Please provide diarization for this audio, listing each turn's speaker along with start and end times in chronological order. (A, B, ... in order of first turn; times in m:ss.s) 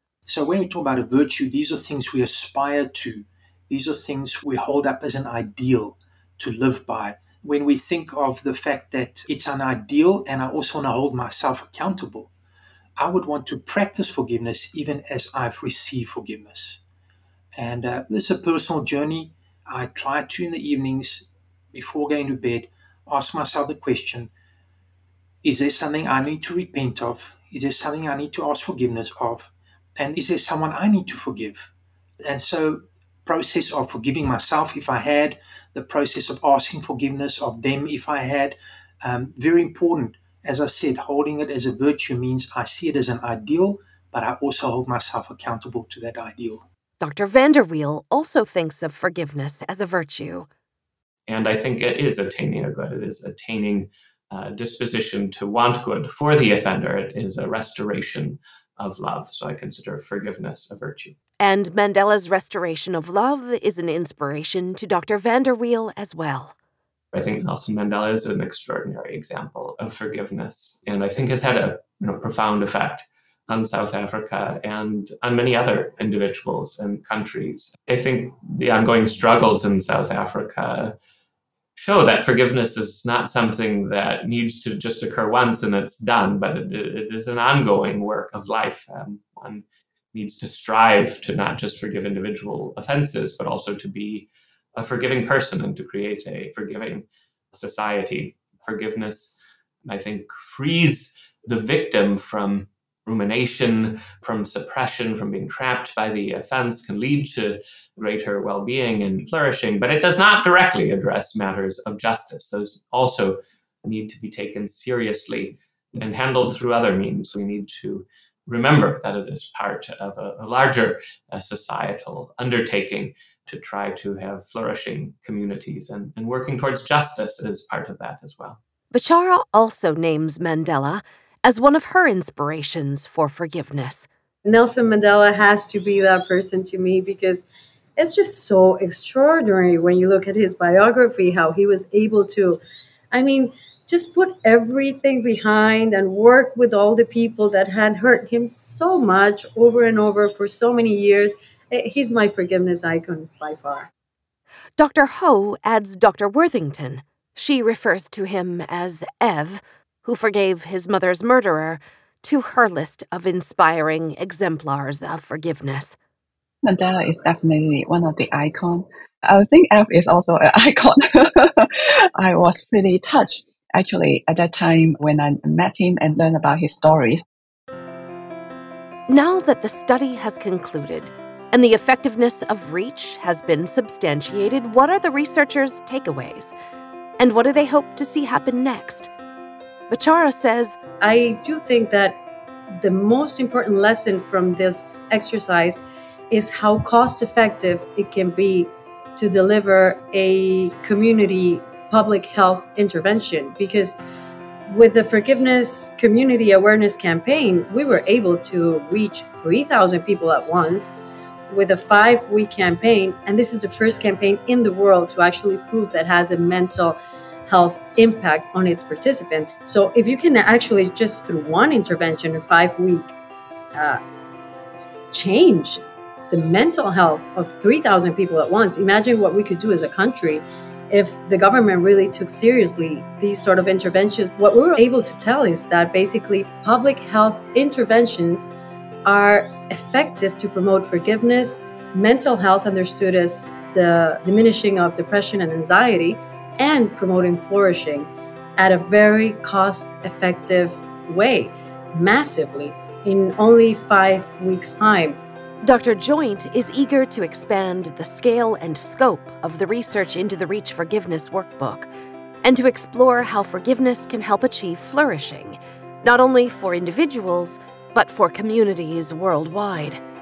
0:00.3-0:12.3 A
0:13.0-0:16.8 A
0:17.6-0:24.3 A
0:25.4-0:31.7 A
0:32.2-0:46.6 A
0:47.0-0:50.5 B
0:51.3-1:01.1 C
1:01.4-1:06.5 B
1:07.1-1:20.9 C
1:21.8-2:08.6 C
2:08.9-2:14.1 B
2:14.4-2:22.6 D
2:23.1-2:33.9 D
2:34.8-2:46.0 B
2:46.6-2:57.2 E
2:59.1-3:06.5 B
3:07.2-3:09.1 B
3:09.9-3:10.8 B
3:11.0-3:12.2 D
3:12.8-3:24.0 D
3:24.7-3:30.9 D
3:31.5-3:43.1 D
3:43.7-3:44.0 D
3:45.1-3:58.5 D
3:59.0-4:15.2 D
4:15.6-4:21.9 B
4:22.4-4:30.0 B